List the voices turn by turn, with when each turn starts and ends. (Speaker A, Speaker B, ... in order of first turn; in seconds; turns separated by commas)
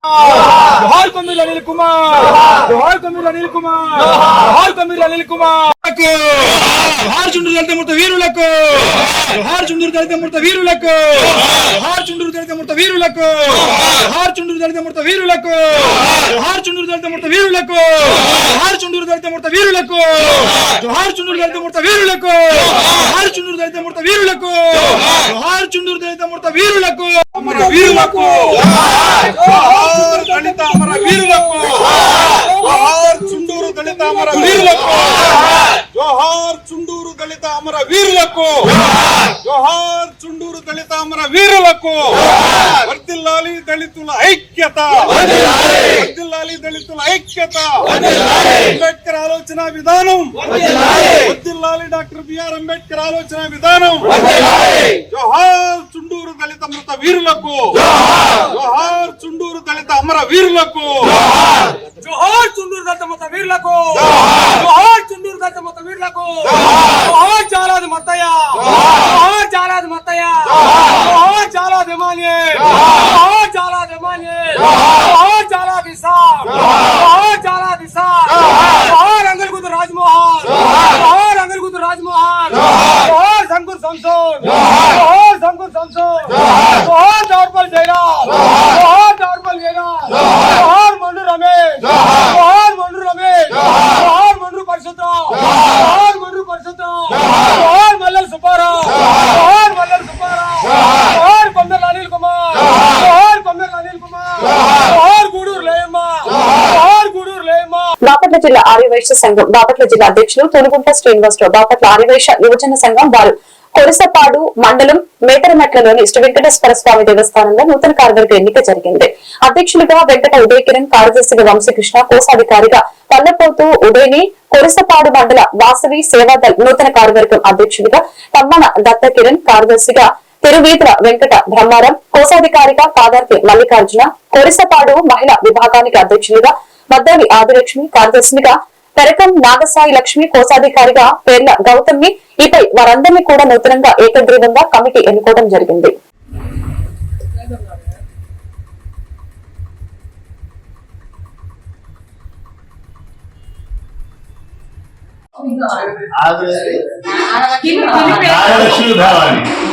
Speaker A: 0.2-5.6, Speaker B: 5.8-54.3, Speaker A: 27.4-28.5, Speaker A: 29.1-30.6, Speaker A: 31.3-33.3, Speaker A: 34.3-34.7, Speaker B: 55.1-57.8, Speaker B: 58.4-61.2, Speaker A: 62.0-107.9, Speaker C: 108.1-145.9, Speaker D: 156.2-156.8, Speaker D: 158.0-159.5